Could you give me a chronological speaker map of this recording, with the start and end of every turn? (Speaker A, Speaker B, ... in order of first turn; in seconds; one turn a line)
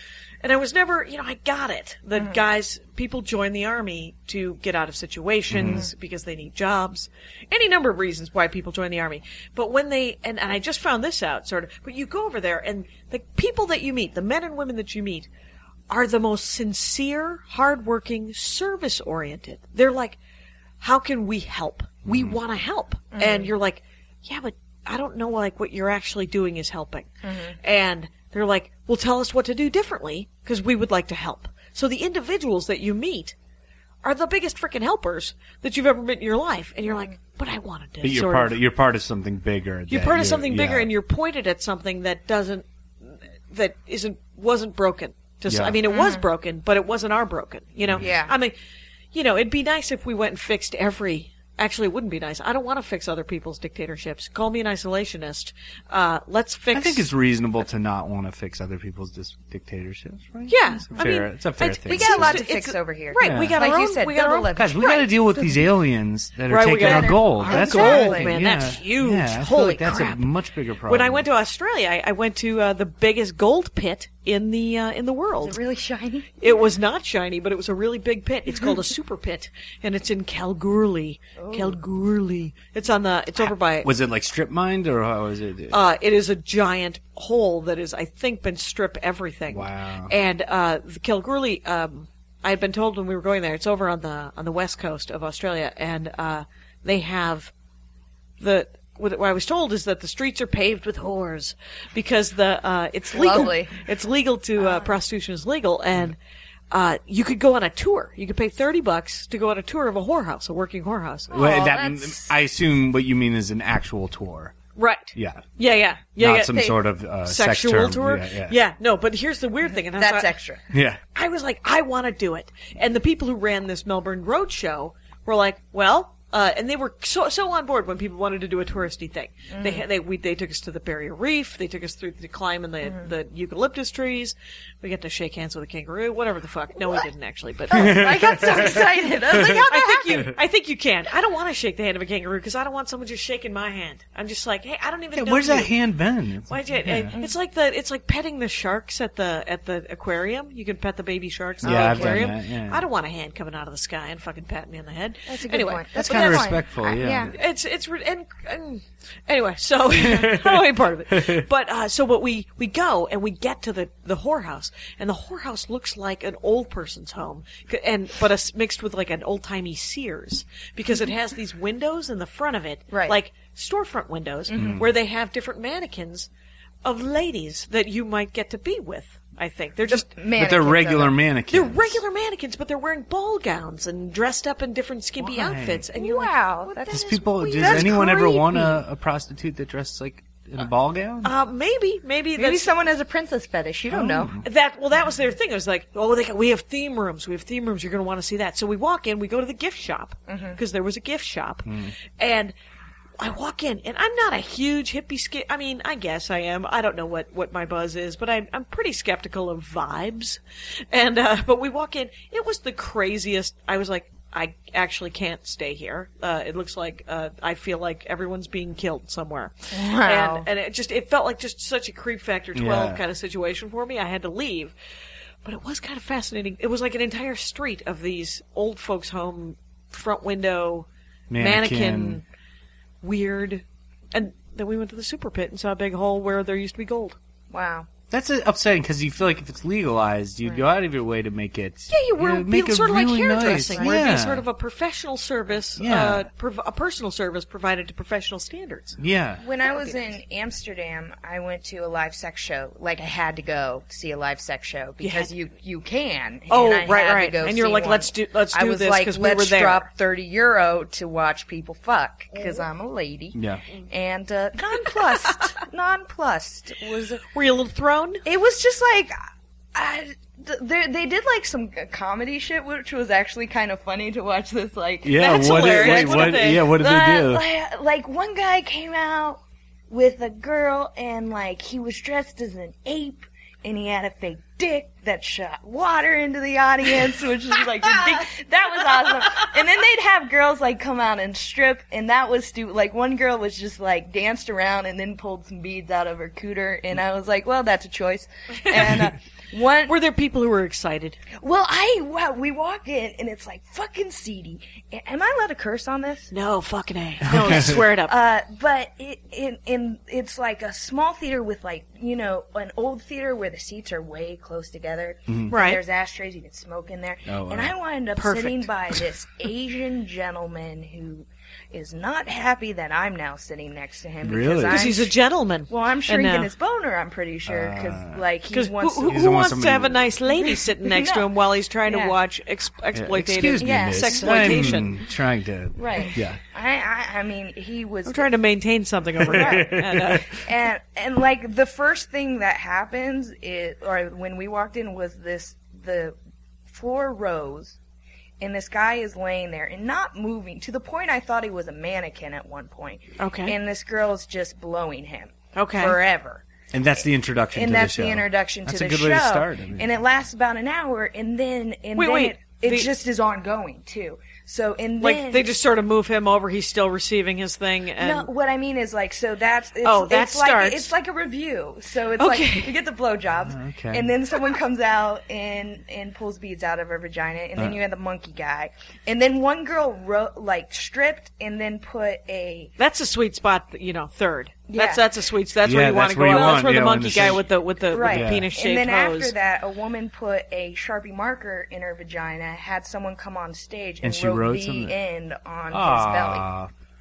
Speaker A: 0.4-15.3
Speaker B: 5.5-5.9
Speaker A: 15.9-20.2
Speaker A: 20.8-27.1
Speaker B: 22.1-22.4
Speaker C: 23.1-23.5
Speaker C: 27.2-27.6
Speaker A: 27.6-33.4
Speaker A: 34.0-38.6
Speaker B: 38.0-40.9
Speaker A: 39.9-48.5
Speaker B: 45.5-45.8
Speaker C: 45.9-46.3
Speaker C: 48.0-48.3
Speaker A: 49.1-57.1
Speaker B: 56.7-62.5
Speaker A: 60.5-65.0
Speaker C: 61.9-65.6
Speaker B: 63.2-63.6
Speaker B: 64.5-71.2
Speaker A: 66.5-70.3
Speaker C: 66.7-68.5
Speaker A: 70.9-75.6
Speaker C: 75.4-76.6
Speaker A: 76.4-83.9
Speaker C: 81.4-81.8
Speaker B: 83.5-85.8
Speaker A: 85.7-97.5
Speaker B: 89.5-90.1
Speaker A: 98.4-106.2
Speaker C: 103.1-103.8
Speaker C: 104.6-105.0
Speaker A: 106.7-111.3
Speaker C: 111.3-112.3
Speaker B: 111.3-114.6
Speaker A: 114.8-120.3
Speaker B: 115.2-115.5
Speaker B: 116.2-118.6
Speaker C: 116.5-116.8
Speaker C: 119.8-120.6
Speaker B: 120.7-121.0
Speaker A: 121.1-145.8
Speaker C: 129.5-129.8
Speaker C: 137.7-140.3
Speaker B: 137.7-139.7
Speaker B: 145.1-147.1
Speaker A: 146.5-156.6
Speaker C: 151.6-152.3
Speaker B: 151.6-152.8
Speaker C: 155.3-157.3
Speaker B: 155.9-157.3
Speaker A: 157.2-176.3
Speaker B: 160.0-161.4
Speaker C: 174.5-174.8
Speaker B: 174.5-174.9
Speaker A: 176.8-180.1
Speaker C: 179.9-181.2
Speaker B: 180.4-182.0
Speaker A: 181.5-188.8
Speaker B: 185.2-185.9
Speaker C: 185.9-188.6
Speaker B: 186.9-191.3
Speaker A: 191.2-192.7
Speaker C: 192.4-194.4
Speaker B: 193.9-194.5
Speaker A: 194.4-202.6
Speaker C: 200.3-200.6
Speaker B: 201.7-201.9
Speaker A: 203.2-224.7
Speaker C: 219.7-220.5
Speaker B: 222.6-223.0
Speaker A: 225.4-232.2
Speaker B: 231.3-232.2
Speaker A: 233.0-237.2
Speaker C: 237.5-237.9
Speaker B: 238.1-244.5
Speaker A: 241.9-249.0
Speaker C: 243.7-244.1
Speaker B: 245.8-246.3
Speaker B: 249.0-249.4
Speaker C: 249.4-267.2
Speaker A: 255.0-255.3
Speaker A: 256.5-259.9
Speaker A: 262.3-262.6
Speaker B: 263.3-263.6
Speaker A: 264.8-265.5
Speaker A: 267.3-268.2
Speaker C: 268.2-269.1
Speaker C: 269.7-299.9
Speaker B: 275.0-277.4
Speaker A: 275.2-276.7
Speaker A: 298.6-299.0
Speaker A: 299.9-301.2
Speaker C: 301.4-306.3
Speaker A: 306.3-308.1
Speaker B: 307.3-307.8
Speaker C: 307.3-325.1
Speaker B: 315.3-315.5
Speaker A: 315.5-315.8
Speaker B: 317.3-317.7
Speaker A: 318.2-318.7
Speaker B: 324.2-324.9
Speaker A: 324.7-326.5
Speaker C: 325.7-329.3
Speaker B: 327.5-328.2
Speaker A: 328.5-335.0
Speaker B: 329.1-330.1
Speaker C: 330.4-331.3
Speaker C: 331.9-332.2
Speaker B: 332.9-336.4
Speaker C: 333.4-334.8
Speaker C: 335.8-338.3
Speaker A: 338.1-340.3
Speaker B: 339.2-340.4
Speaker C: 339.3-339.7
Speaker C: 340.3-346.2
Speaker C: 346.7-347.8
Speaker C: 348.4-356.4
Speaker A: 353.2-353.6
Speaker A: 355.5-356.0
Speaker B: 356.7-359.9
Speaker C: 357.5-365.5
Speaker A: 362.0-362.9
Speaker A: 365.0-368.3
Speaker C: 368.0-382.7
Speaker A: 369.8-370.9
Speaker A: 372.2-372.8
Speaker B: 373.4-374.1
Speaker A: 382.8-389.4
Speaker C: 384.7-385.0
Speaker B: 385.6-387.5
Speaker C: 386.3-386.6
Speaker C: 387.9-396.5
Speaker B: 388.0-388.5
Speaker B: 394.0-394.9
Speaker B: 395.7-396.7